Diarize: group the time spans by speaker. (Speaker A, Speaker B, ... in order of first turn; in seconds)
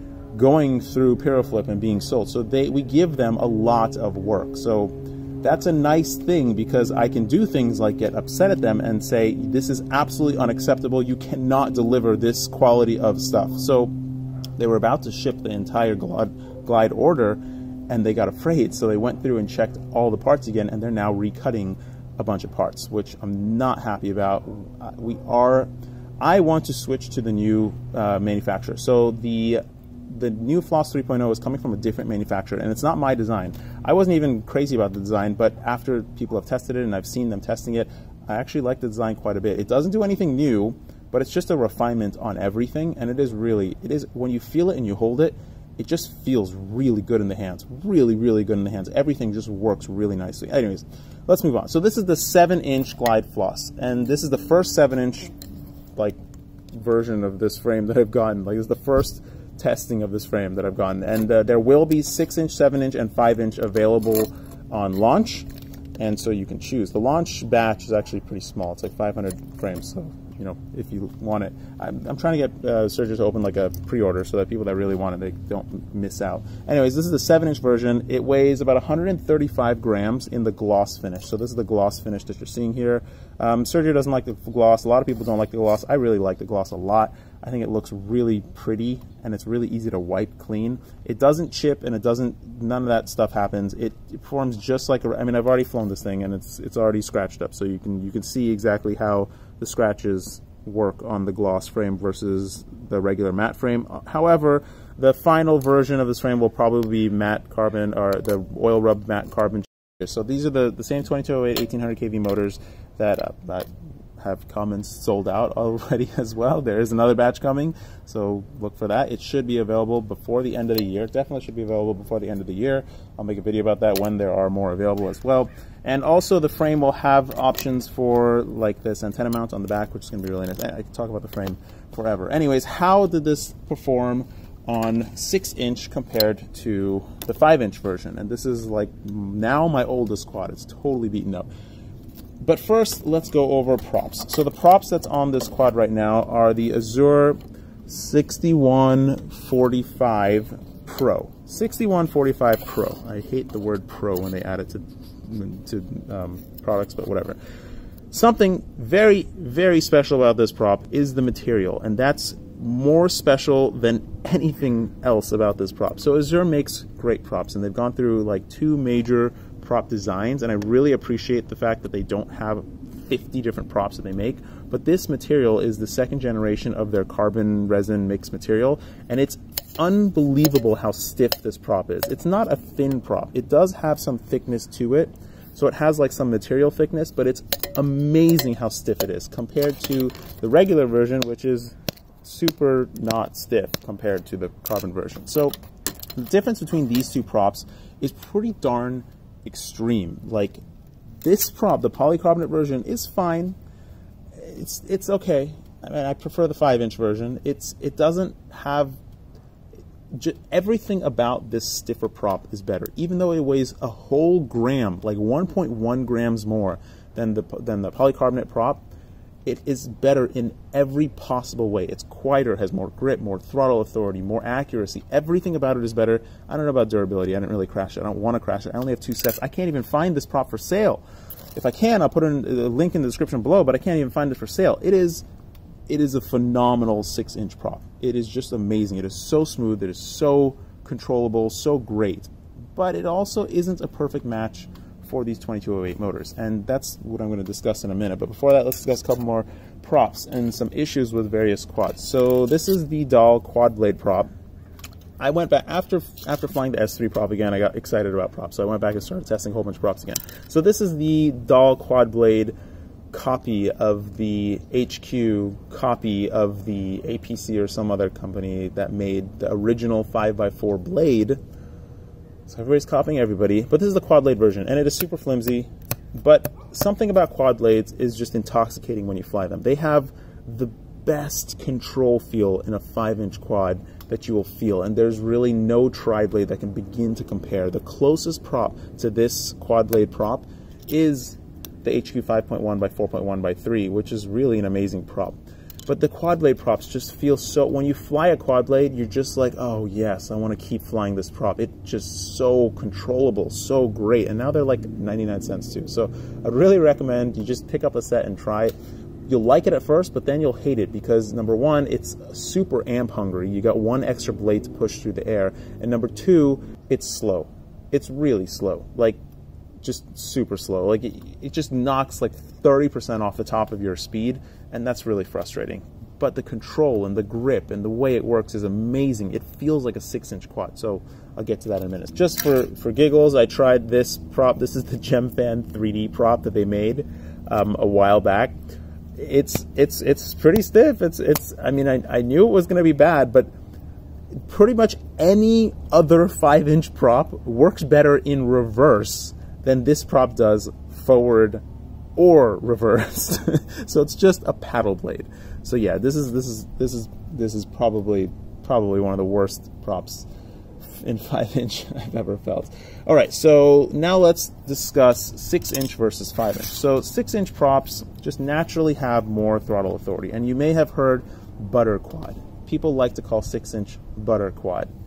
Speaker A: 0.3-13.9, 14.6-55.3, 56.7-141.5, 142.4-157.4, 158.1-195.5, 196.2-200.6, 201.2-203.6, 204.3-209.0, 210.1-218.8, 219.4-231.0, 231.5-235.2, 235.9-254.3, 255.2-262.5, 263.1-271.4, 272.5-308.7, 309.3-319.2, 319.8-338.6, 339.2-343.5, 344.5-351.6, 352.1-360.3, 361.0-374.9